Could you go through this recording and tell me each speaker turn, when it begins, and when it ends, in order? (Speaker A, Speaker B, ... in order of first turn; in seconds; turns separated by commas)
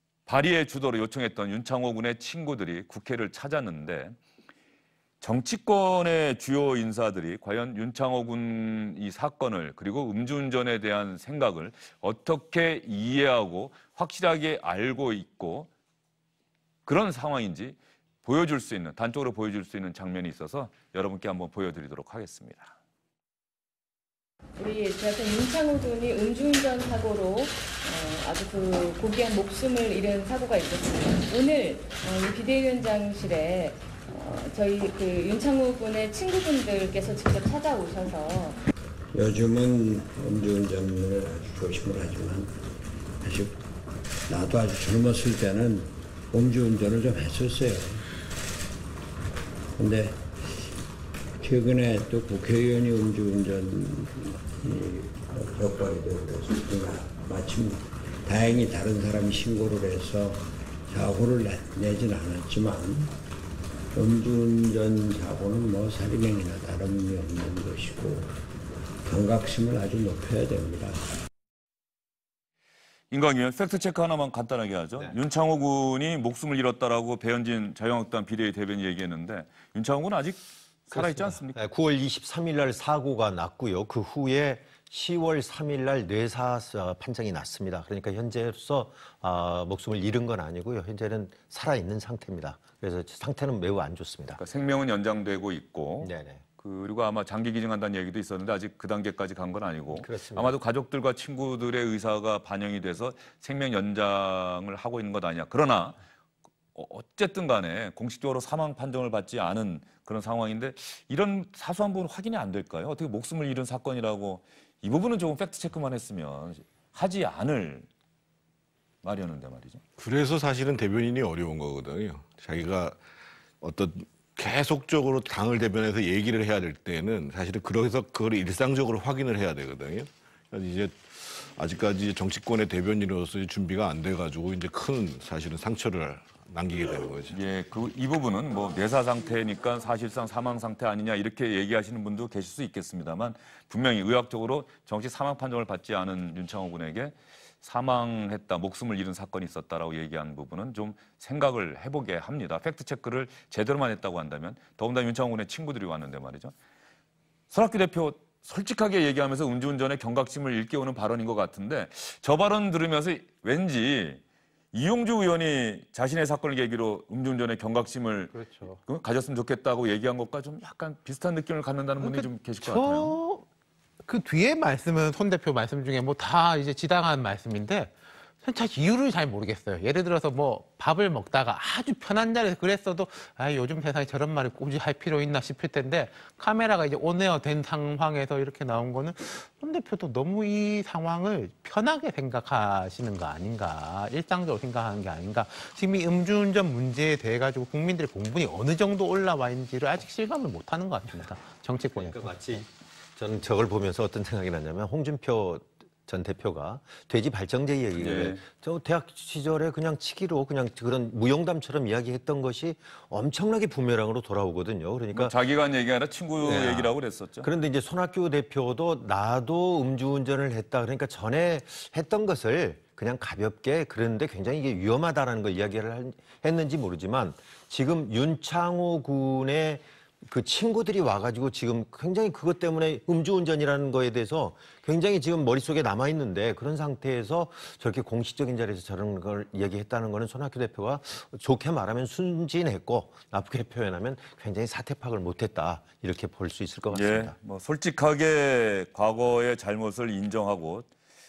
Speaker A: 0.2-4.2, Speaker A: 5.2-15.7, Speaker A: 16.9-22.7, Speaker B: 24.6-38.6, Speaker C: 39.1-42.6, Speaker C: 43.2-43.6, Speaker C: 44.3-48.0, Speaker C: 49.8-50.6, Speaker C: 51.4-63.1, Speaker C: 63.9-68.3, Speaker C: 69.0-71.0, Speaker A: 73.1-81.6, Speaker D: 80.9-94.4, Speaker A: 94.4-106.0, Speaker D: 96.0-96.4, Speaker D: 99.9-100.5, Speaker A: 106.7-117.9, Speaker A: 119.0-119.8, Speaker E: 120.0-123.0, Speaker E: 123.6-137.4, Speaker A: 137.3-156.5, Speaker A: 157.5-173.2, Speaker F: 168.3-168.8, Speaker F: 172.0-173.4, Speaker F: 174.1-202.3, Speaker D: 201.9-215.3, Speaker A: 208.0-208.4, Speaker A: 215.1-217.5, Speaker D: 216.4-247.3, Speaker A: 246.9-250.9